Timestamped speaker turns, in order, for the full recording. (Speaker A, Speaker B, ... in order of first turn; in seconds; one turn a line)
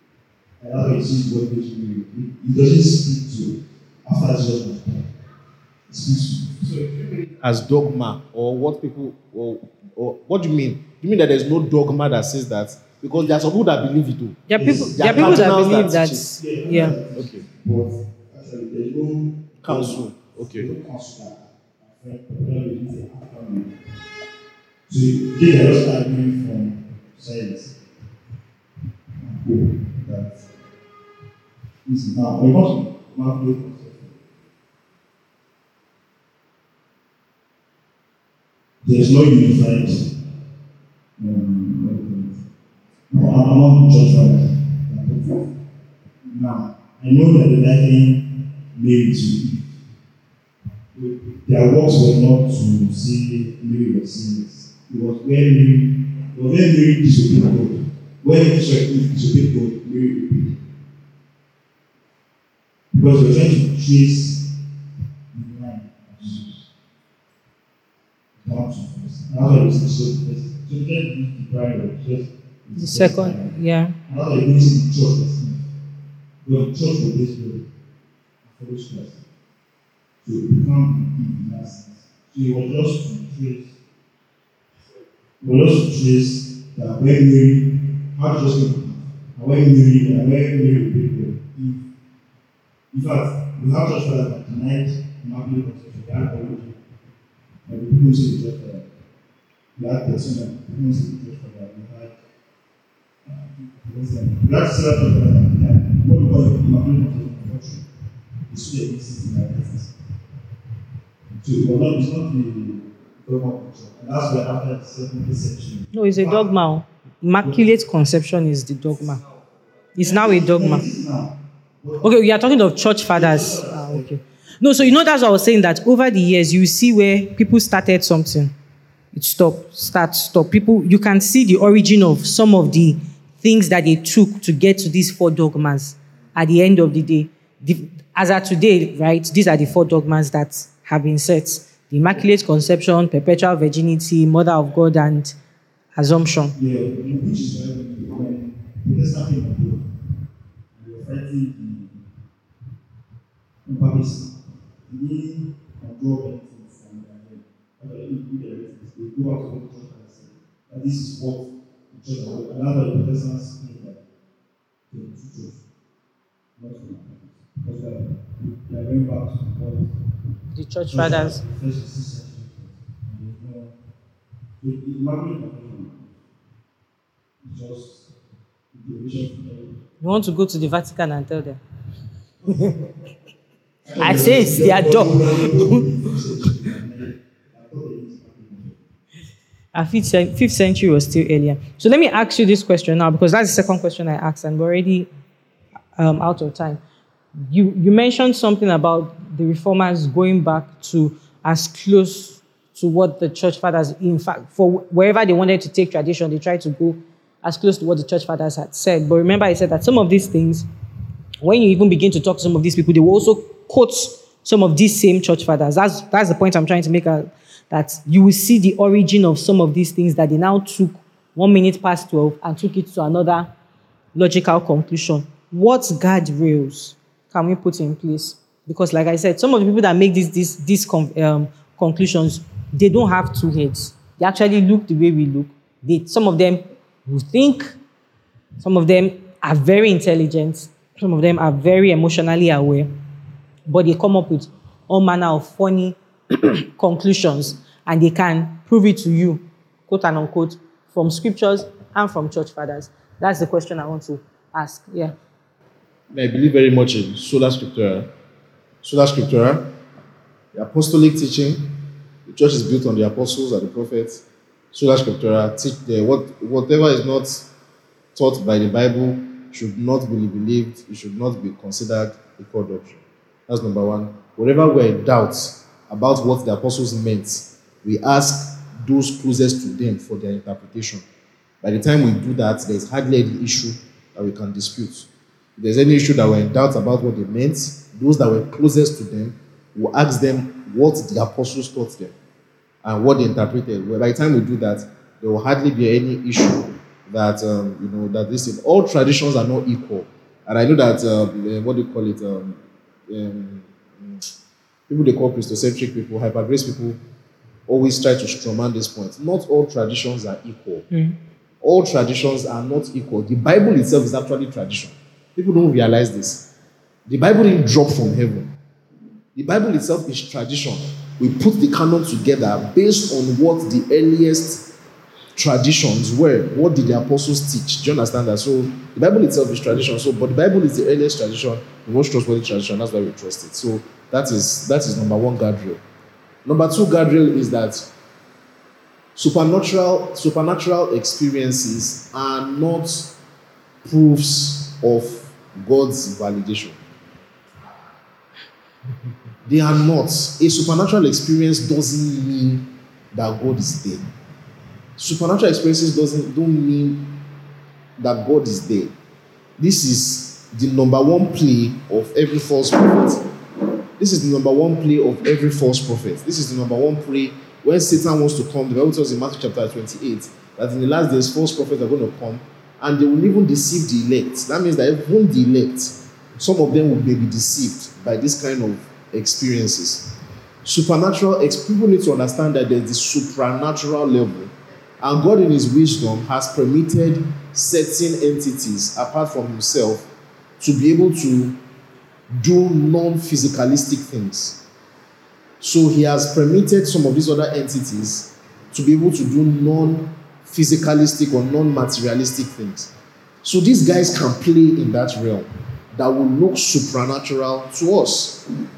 Speaker A: 0.6-5.1
Speaker A: 5.9-6.9
Speaker B: 7.3-16.4
Speaker C: 14.5-17.0
Speaker A: 14.6-23.8
Speaker B: 17.1-17.5
Speaker B: 19.6-20.7
Speaker A: 24.9-27.8
Speaker A: 29.2-30.4
Speaker A: 31.8-34.2
Speaker A: 38.8-40.1
Speaker A: 41.2-42.4
Speaker A: 43.1-45.5
Speaker A: 46.2-49.7
Speaker A: 50.9-60.5
Speaker A: 62.9-64.5
Speaker A: 65.3-66.6
Speaker A: 68.4-73.5
Speaker C: 72.8-74.0
Speaker A: 74.1-75.6
Speaker A: 76.4-77.6
Speaker A: 78.5-79.2
Speaker A: 80.2-83.7
Speaker A: 85.4-91.8
Speaker A: 92.9-96.8
Speaker A: 97.7-98.9
Speaker A: 99.7-102.2
Speaker A: 103.2-107.8
Speaker A: 108.5-109.9
Speaker A: 111.4-116.5
Speaker C: 115.9-119.2
Speaker A: 117.4-117.7
Speaker C: 120.0-120.8
Speaker A: 120.0-122.2
Speaker C: 122.0-128.5
Speaker A: 123.1-124.1
Speaker C: 129.1-145.3
Speaker C: 145.9-146.6
Speaker A: 146.6-149.9
Speaker A: 150.7-152.0
Speaker A: 153.6-154.3
Speaker A: 154.9-164.0
Speaker A: 164.9-165.6
Speaker A: 166.6-169.9
Speaker C: 170.5-171.4
Speaker A: 170.9-173.7
Speaker A: 174.6-176.1
Speaker A: 177.4-178.1
Speaker A: 178.7-179.8
Speaker C: 180.0-181.6
Speaker C: 182.5-182.8
Speaker A: 183.8-188.8
Speaker C: 184.0-185.9
Speaker C: 189.7-195.1
Speaker C: 196.0-196.8
Speaker C: 197.4-210.7
Speaker C: 211.4-223.5
Speaker C: 224.1-237.8
Speaker C: 238.6-242.9
Speaker C: 243.7-255.2
Speaker B: 256.1-258.1
Speaker B: 258.8-259.7
Speaker B: 260.5-261.7
Speaker B: 262.2-267.4
Speaker B: 268.1-281.0
Speaker B: 281.6-292.1
Speaker B: 292.8-304.2
Speaker B: 304.9-307.0
Speaker B: 307.7-310.8
Speaker B: 311.6-316.5
Speaker B: 317.1-318.5
Speaker B: 319.3-324.6
Speaker B: 325.4-335.8
Speaker B: 336.4-337.9
Speaker B: 339.1-343.1
Speaker B: 343.8-346.8
Speaker B: 349.4-354.1
Speaker B: 355.0-357.2
Speaker B: 358.0-358.9
Speaker B: 359.6-363.2
Speaker B: 364.0-380.1
Speaker B: 380.6-390.1
Speaker B: 390.6-391.6
Speaker B: 392.3-394.6
Speaker B: 395.6-402.9
Speaker B: 403.4-408.4